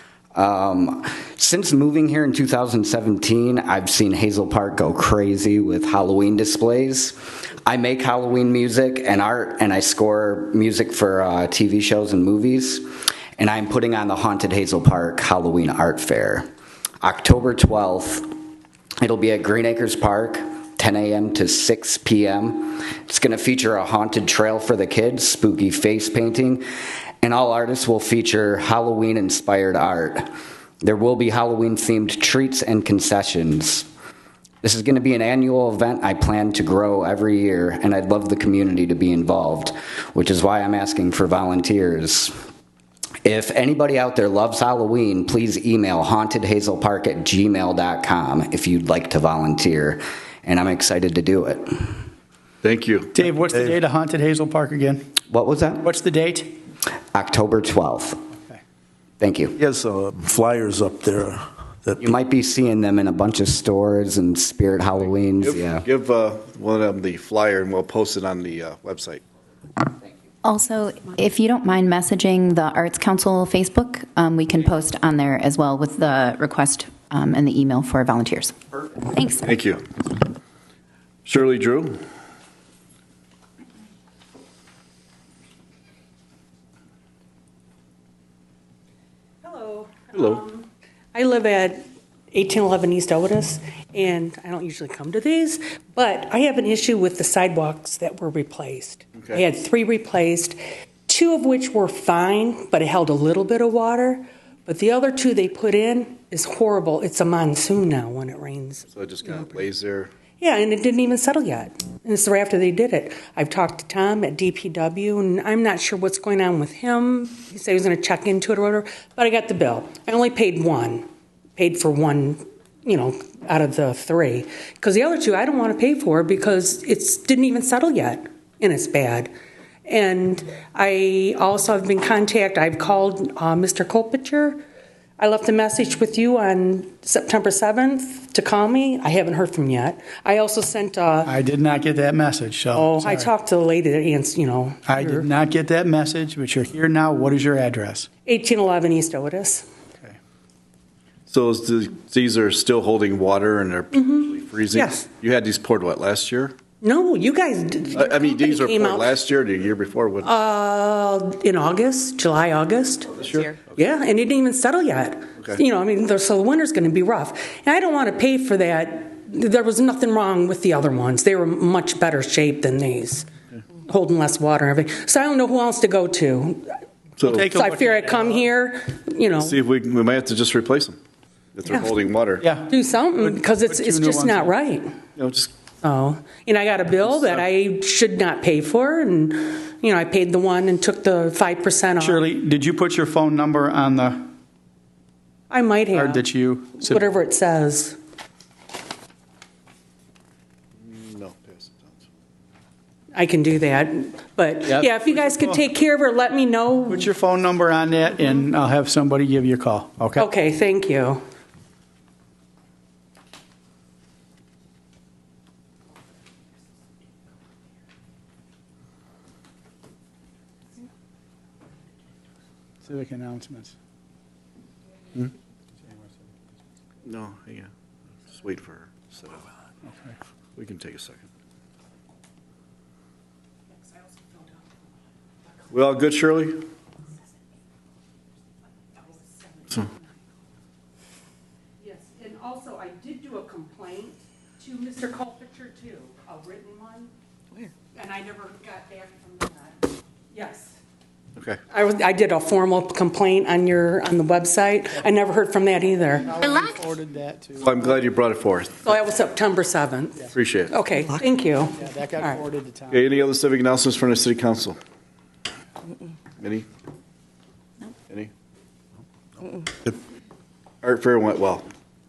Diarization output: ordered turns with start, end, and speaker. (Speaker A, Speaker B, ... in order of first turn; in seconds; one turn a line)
Speaker A: 0.3-12.8
Speaker A: 13.4-16.4
Speaker A: 17.0-18.3
Speaker A: 19.0-26.6
Speaker A: 27.2-30.3
Speaker A: 30.8-33.9
Speaker A: 34.6-42.3
Speaker A: 43.2-51.9
Speaker B: 52.6-53.1
Speaker C: 53.1-55.1
Speaker A: 55.3-55.9
Speaker C: 55.8-56.5
Speaker A: 57.1-58.2
Speaker A: 59.2-59.6
Speaker D: 59.6-62.1
Speaker A: 62.0-65.8
Speaker B: 65.4-69.2
Speaker E: 70.4-79.5
Speaker B: 79.4-79.8
Speaker B: 81.2-82.0
Speaker F: 89.4-108.8
Speaker B: 90.1-90.4
Speaker B: 108.9-110.1
Speaker F: 110.4-121.0
Speaker F: 121.6-129.3
Speaker F: 129.9-134.6
Speaker F: 135.2-141.3
Speaker C: 141.2-143.3
Speaker F: 142.7-145.3
Speaker C: 144.9-148.1
Speaker F: 148.2-149.7
Speaker B: 151.3-156.6
Speaker F: 153.9-155.0
Speaker F: 156.8-159.1
Speaker B: 157.9-160.4
Speaker F: 160.2-173.3
Speaker B: 163.2-163.6
Speaker F: 173.8-176.8
Speaker B: 177.2-177.4
Speaker C: 177.2-178.4
Speaker F: 177.5-179.6
Speaker B: 179.4-181.0
Speaker B: 181.5-182.4
Speaker C: 182.4-184.5
Speaker F: 182.7-184.9
Speaker B: 185.2-185.5
Speaker F: 185.8-192.2
Speaker B: 187.0-187.4
Speaker C: 192.0-194.3
Speaker F: 195.5-196.2
Speaker C: 195.9-197.0
Speaker F: 196.8-198.0
Speaker B: 200.8-202.0
Speaker F: 203.1-207.1
Speaker C: 204.8-205.6
Speaker C: 206.9-210.3
Speaker F: 210.2-211.2
Speaker C: 222.8-223.7
Speaker B: 227.0-227.7
Speaker B: 228.3-229.5
Speaker B: 230.6-231.3
Speaker F: 233.8-234.7
Speaker B: 235.7-236.7
Speaker F: 238.9-240.0
Speaker F: 241.8-247.1
Speaker F: 247.9-250.7
Speaker B: 251.3-251.6
Speaker F: 251.7-256.4
Speaker C: 256.2-257.8
Speaker B: 257.6-258.8
Speaker F: 258.8-262.4
Speaker B: 260.3-260.8
Speaker C: 261.8-263.1
Speaker B: 262.9-264.8
Speaker B: 266.4-266.6
Speaker B: 270.8-271.6